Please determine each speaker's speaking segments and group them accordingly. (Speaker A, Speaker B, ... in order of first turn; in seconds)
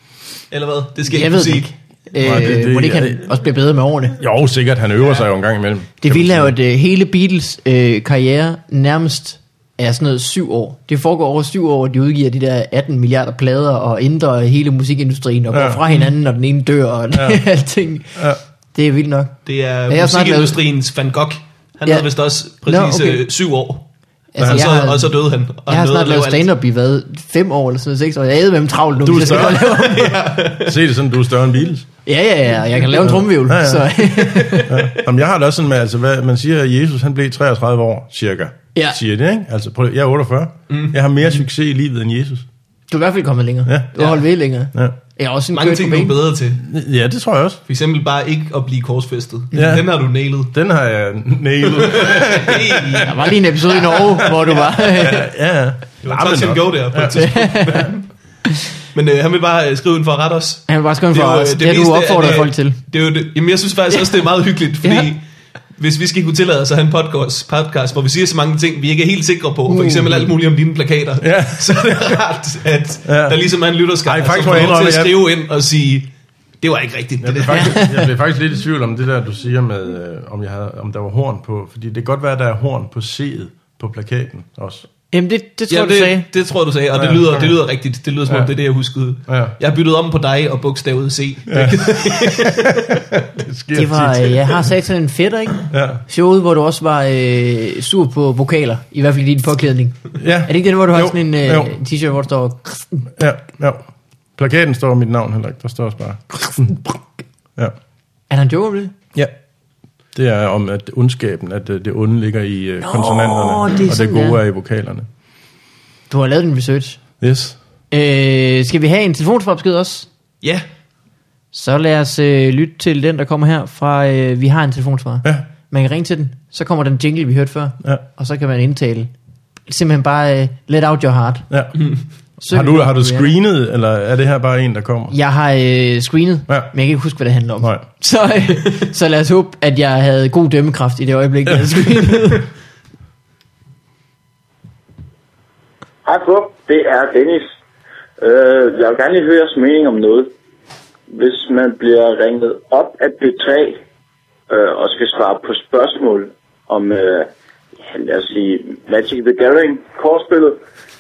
Speaker A: 0.5-1.7, 19.5-23.9, 24.4-26.5, 29.2-30.8, 34.2-34.9, 40.7-41.0, 45.5-46.6, 47.7-50.5, 51.7-55.0, 56.0-58.1, 58.9-65.2, 65.8-77.8, 85.7-93.0
Speaker B: 1.1-4.2, 6.0-19.4, 19.9-20.6, 22.6-23.3, 24.3-30.3, 32.1-34.8, 42.9-46.2, 53.0-55.3, 57.1-57.9, 60.7-62.8, 63.9-64.2, 64.8-65.1, 69.7-70.3, 77.5-78.0, 85.1-86.3, 93.7-103.1, 108.3-109.0, 112.8-114.4, 116.1-117.0, 117.9-120.1, 121.5-129.1, 129.7-131.5, 132.4-133.3, 135.1-142.5
Speaker C: 2.2-3.2, 4.2-6.5, 15.5-15.8, 17.1-17.4, 24.4-24.7, 29.0-29.7, 30.6-31.9, 33.0-34.1, 34.6-42.5, 43.7-43.9, 46.6-47.6, 49.5-49.9, 50.5-53.3, 54.9-57.9, 71.2-72.2, 73.1-73.4, 74.0-75.2, 77.2-84.9, 87.0-87.5, 88.3-88.5, 89.3-89.5, 91.5-94.6, 95.7-96.0, 100.2-101.7, 103.2-103.8, 104.4-107.0, 110.2-115.1, 117.2-117.6, 131.5-131.8, 132.5-135.1
Speaker D: 146.1-147.5, 148.2-150.3, 151.1-153.8, 154.5-157.3, 157.8-160.6